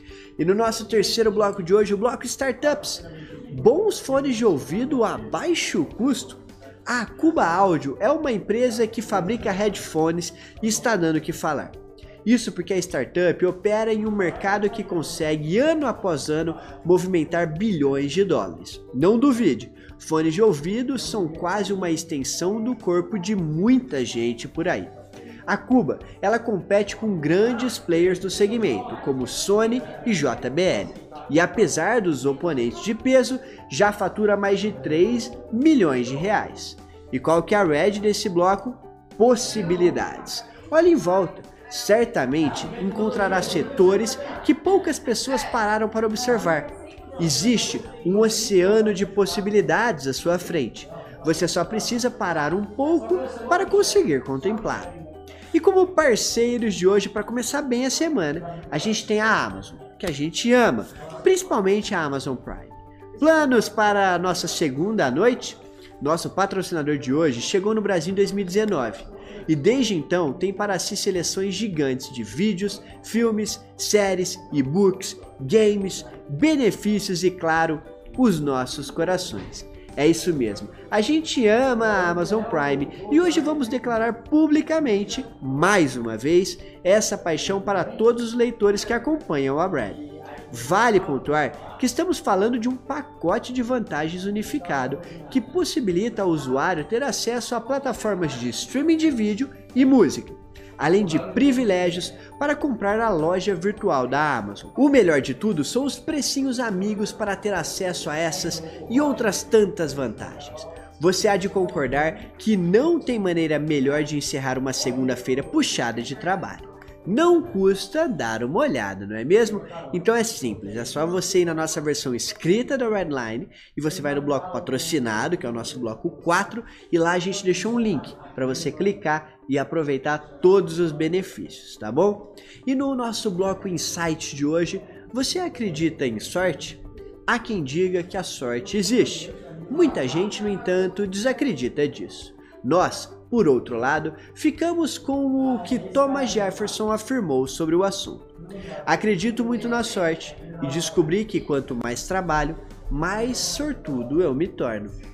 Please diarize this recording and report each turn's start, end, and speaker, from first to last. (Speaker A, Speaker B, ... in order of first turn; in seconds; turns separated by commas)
Speaker A: 0.4-24.9, Speaker A: 25.5-55.0, Speaker A: 55.5-148.3, Speaker A: 148.9-154.9